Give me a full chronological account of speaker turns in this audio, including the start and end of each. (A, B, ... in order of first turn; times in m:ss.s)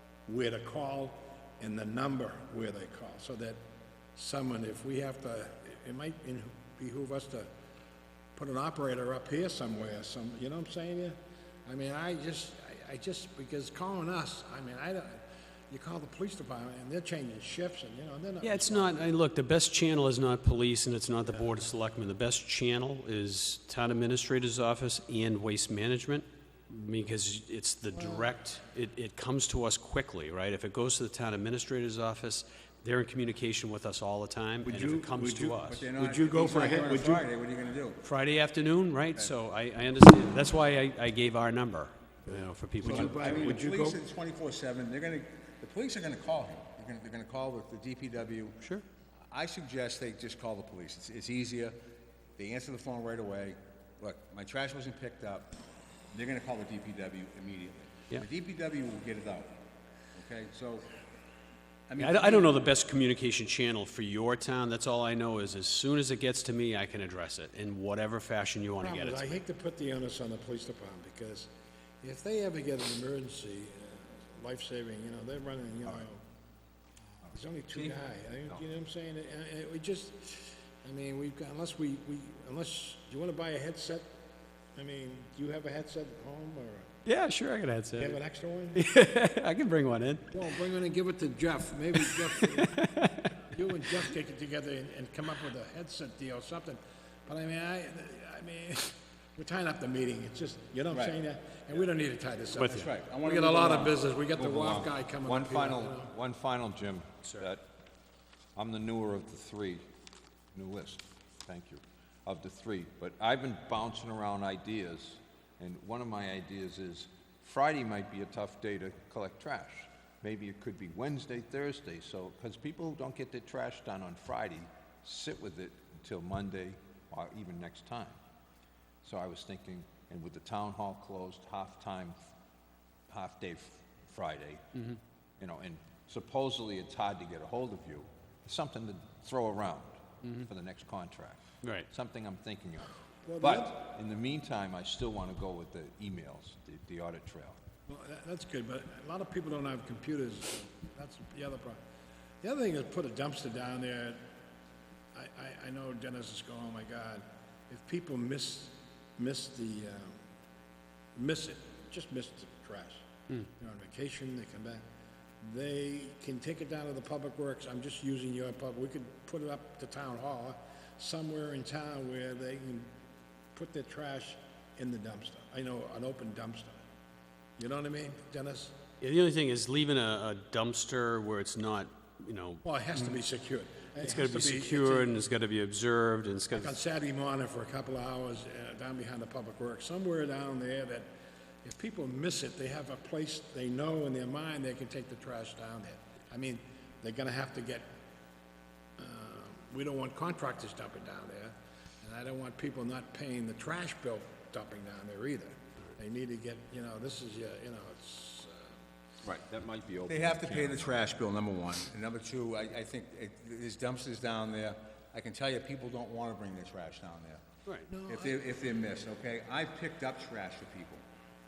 0:00.3-0:03.6 A
0:04.2-0:07.5 A
0:08.4-0:19.0 A
0:18.4-0:35.9 B
0:27.9-0:28.3 A
0:34.6-0:37.3 A
0:35.7-0:38.0 C
0:38.0-0:43.6 B
0:42.8-0:44.0 A
0:42.8-0:48.6 C
0:49.3-0:51.8 C
0:52.4-0:55.6 C
0:56.1-0:59.6 C
1:00.1-1:00.9 C
1:01.9-1:02.6 C
1:02.0-1:09.4 B
1:08.8-1:11.5 A
1:12.0-1:16.2 A
1:17.3-1:24.1 A
1:24.8-1:26.9 A
1:27.0-1:28.2 B
1:28.0-1:28.8 A
1:28.7-1:30.4 B
1:30.3-1:46.1 A
1:32.0-1:33.2 B
1:40.9-1:41.2 C
1:42.6-1:42.9 B
1:42.6-1:44.0 C
1:44.4-1:47.6 D
1:48.6-1:49.8 D
1:50.5-2:08.2 D
2:09.0-2:12.2 D
2:13.1-2:14.6 D
2:15.4-2:27.6 D
2:21.6-2:21.9 B
2:23.2-2:23.8 A
2:27.9-2:31.8 A
2:32.4-2:34.2 A
2:35.1-2:40.2 A
2:41.2-2:44.8 A
2:45.4-2:52.9 A
2:53.6-2:56.8 A
2:57.6-2:58.8 A
2:59.0-3:03.1 B
3:02.6-3:05.1 A
3:04.0-3:06.8 B
3:06.5-3:11.1 A
3:11.6-3:17.9 A
3:19.0-3:28.7 A
3:29.2-3:30.8 D
3:30.1-3:37.4 C
3:37.9-3:38.4 A
3:38.1-3:41.0 C